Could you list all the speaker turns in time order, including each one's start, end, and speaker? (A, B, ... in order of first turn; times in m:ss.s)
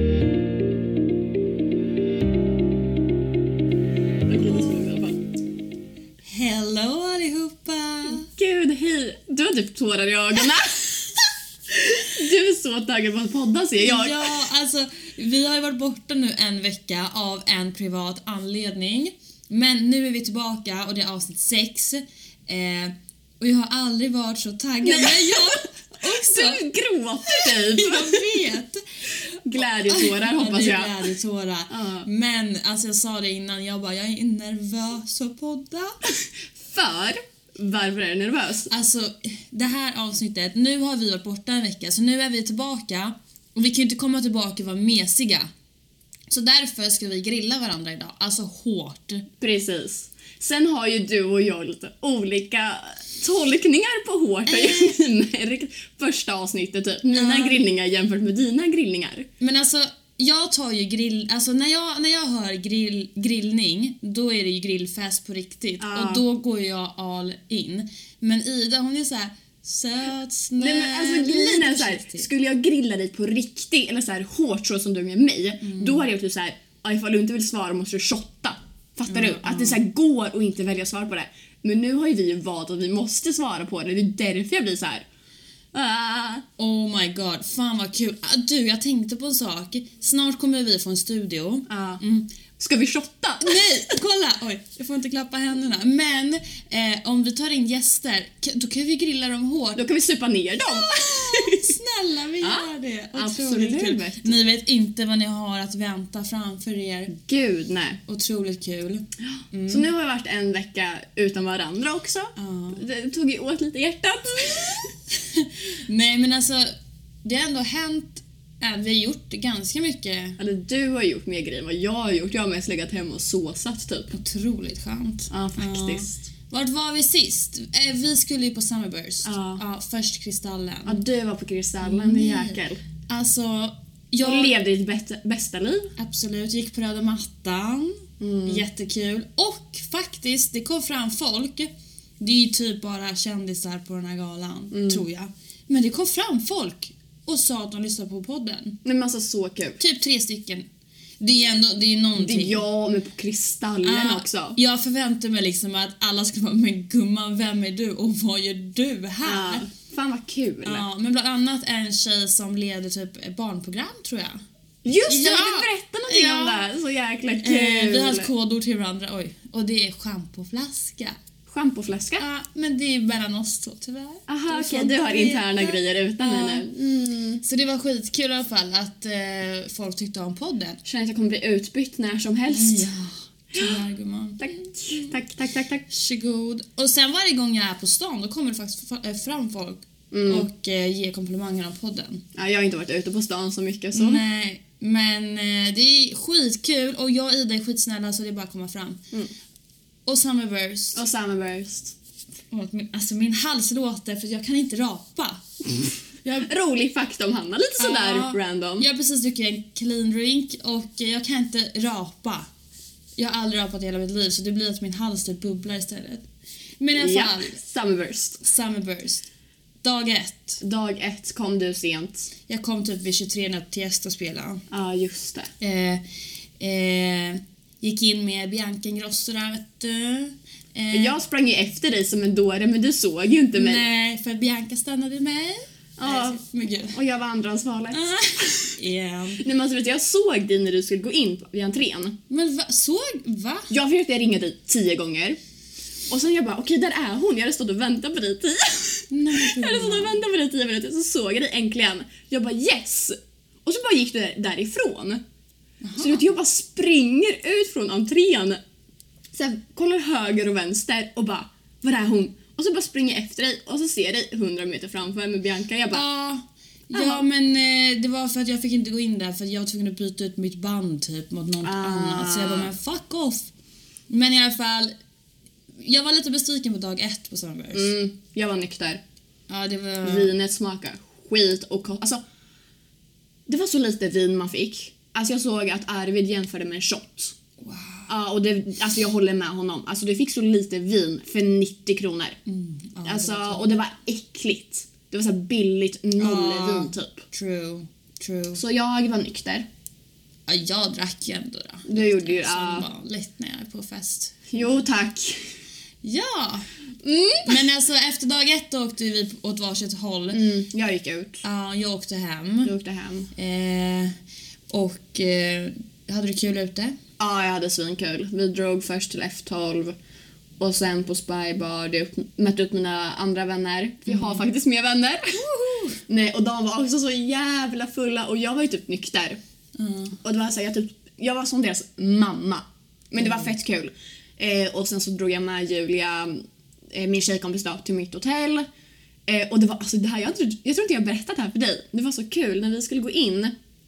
0:04.3-0:05.2 A
0:06.3-0:08.3 B
0:08.1-0:11.0 A
0:11.7-0:14.3 A
0:13.8-0:26.6 B
0:24.8-0:28.2 A
0:27.3-0:29.1 B
0:29.4-0:31.0 A
0:29.8-0:36.0 B
0:31.7-0:32.1 A
0:36.1-0:38.7 A
0:38.7-0:45.5 B
0:46.3-0:49.3 B
0:49.4-0:59.3 A
0:54.5-0:55.0 B
0:57.1-0:57.6 B
0:59.4-1:12.3 B
1:05.8-1:06.2 A
1:10.6-1:25.0 A
1:15.6-1:16.0 B
1:19.1-1:19.8 B
1:25.7-1:26.4 A
1:26.6-1:32.3 B
1:31.7-1:32.0 A
1:32.6-1:33.6 A
1:33.4-1:39.8 B
1:39.8-1:41.7 A
1:40.6-1:47.2 B
1:42.4-1:44.3 A
1:47.1-1:48.0 A
1:48.1-1:49.9 B
1:49.7-1:54.9 A
1:52.4-1:52.8 B
1:55.3-2:00.4 B
2:00.4-2:04.1 A
2:04.1-2:11.0 B
2:05.3-2:06.2 A
2:09.2-2:09.6 A
2:10.9-2:12.8 A
2:11.8-2:14.5 B
2:14.2-2:15.9 A
2:16.0-2:28.8 B
2:18.2-2:18.6 A
2:24.7-2:25.0 A
2:28.8-2:29.8 A
2:29.8-2:30.7 B
2:31.2-2:32.6 B
2:32.2-2:34.6 A
2:33.8-2:39.7 B
2:39.2-2:40.8 A
2:40.6-2:44.4 B
2:44.8-2:48.3 A
2:45.1-2:46.7 B
2:47.4-2:51.2 B
2:51.5-2:52.2 A
2:52.2-2:56.6 B
2:54.3-2:57.4 A
2:57.4-3:00.8 B
3:00.8-3:02.9 A
3:02.5-3:05.1 B
3:04.4-3:05.8 A
3:05.9-3:12.2 B
3:10.1-3:10.5 A
3:12.4-3:14.2 A
3:13.9-3:19.0 B
3:20.1-3:21.0 B
3:21.0-3:21.9 A
3:22.5-3:25.4 B
3:26.2-3:26.5 B
3:26.4-3:28.9 A
3:27.8-3:32.5 B
3:33.2-3:36.3 B
3:36.8-3:37.6 B
3:37.0-3:38.4 A
3:38.4-3:39.3 B
3:39.8-3:40.6 B
3:40.6-3:42.3 A
3:42.5-3:44.6 B
3:44.7-3:45.5 A
3:45.6-3:46.0 B
3:46.6-3:51.2 B
3:50.9-3:53.8 A
3:53.6-3:57.0 B
3:56.0-3:58.7 A
3:57.9-3:59.4 B
3:59.4-4:02.2 A
4:02.3-4:03.7 B
4:03.7-4:05.4 A
4:06.1-4:15.2 A
4:09.1-4:10.2 B
4:15.8-4:16.3 B
4:16.0-4:18.6 A
4:19.3-4:26.0 A
4:25.9-4:33.5 B
4:26.9-4:27.2 A
4:31.6-4:32.7 A
4:34.1-4:34.9 B
4:35.8-4:37.9 B
4:37.7-4:39.0 A
4:39.5-4:40.3 B
4:40.0-4:42.2 A
4:43.5-4:47.4 A
4:47.6-4:48.1 B
4:48.1-4:52.4 A
4:52.5-4:53.8 B
4:53.0-4:57.2 A
4:56.2-4:58.6 B
4:58.6-4:59.7 A
5:00.5-5:04.8 B
5:01.9-5:02.9 A
5:04.5-5:05.5 A
5:06.0-5:06.7 B
5:07.0-5:07.6 A
5:07.5-5:10.5 B
5:10.3-5:11.4 A
5:11.4-5:12.7 B
5:12.6-5:13.3 A
5:13.3-5:14.1 B
5:14.7-5:17.0 B
5:17.2-5:20.0 A
5:20.6-5:25.4 A
5:25.4-5:26.0 B
5:26.1-5:29.4 A
5:29.8-5:30.2 B
5:30.2-5:38.7 A
5:33.2-5:33.5 B
5:39.3-5:43.5 A